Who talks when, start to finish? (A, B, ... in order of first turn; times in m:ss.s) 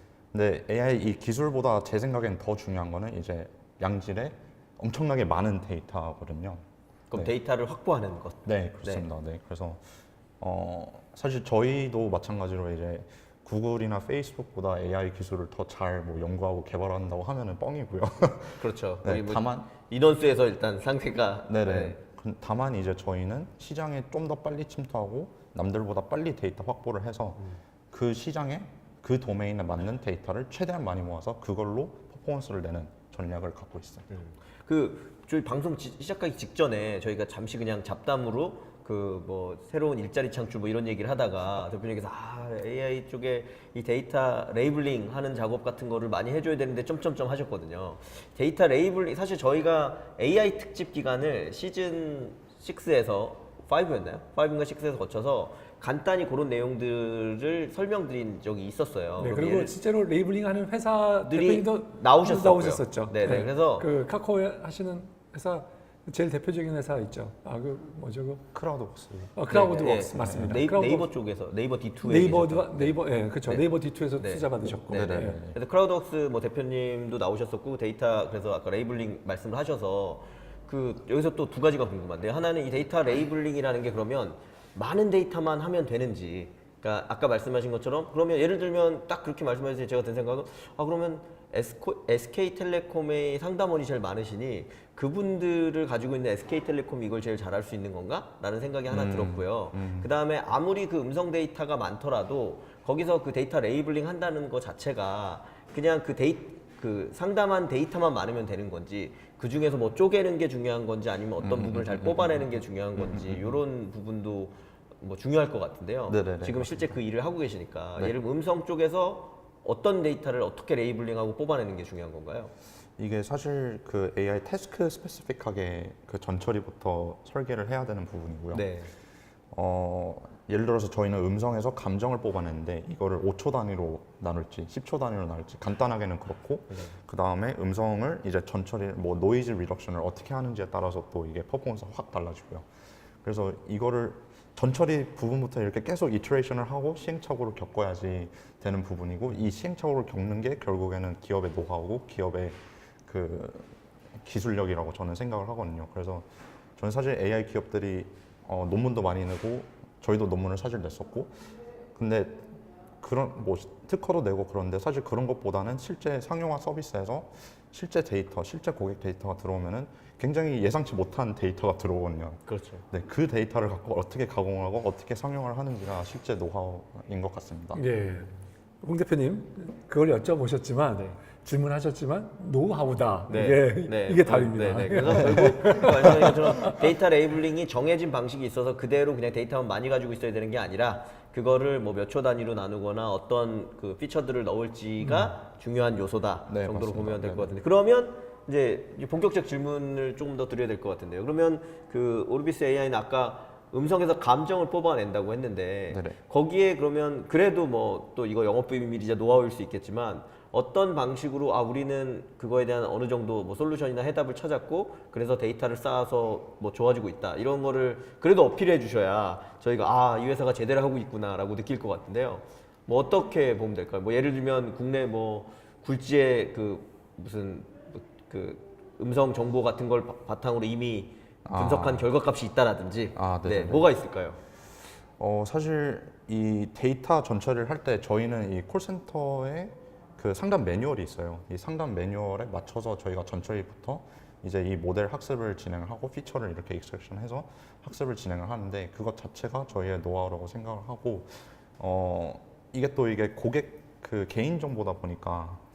0:00.3-0:07.3 A
0:07.1-0:09.1 B
0:08.4-0:19.7 A
0:18.6-0:22.0 B
0:21.5-0:27.4 A
0:27.9-0:34.1 A
0:34.1-0:59.8 B
0:59.2-1:08.5 C
1:01.2-1:03.9 B
1:08.5-1:10.6 A
1:09.3-1:11.1 C
1:09.5-2:02.5 B
1:12.0-1:15.4 C
1:14.9-1:15.6 A
1:38.9-1:40.1 A
1:51.4-1:52.4 A
1:53.0-1:53.6 A
1:56.1-1:57.0 A
2:03.0-2:08.6 A
2:08.5-2:08.9 B
2:09.5-2:22.7 A
2:16.7-2:17.0 B
2:23.2-2:41.3 A
2:41.9-2:57.8 A
2:52.4-2:52.8 B
2:57.7-3:06.8 C
3:03.3-3:54.4 B
3:15.0-3:15.3 C
3:16.5-3:17.5 A
3:25.9-3:26.2 A
3:51.4-3:52.1 A
3:53.2-3:53.9 A
3:55.2-4:15.6 A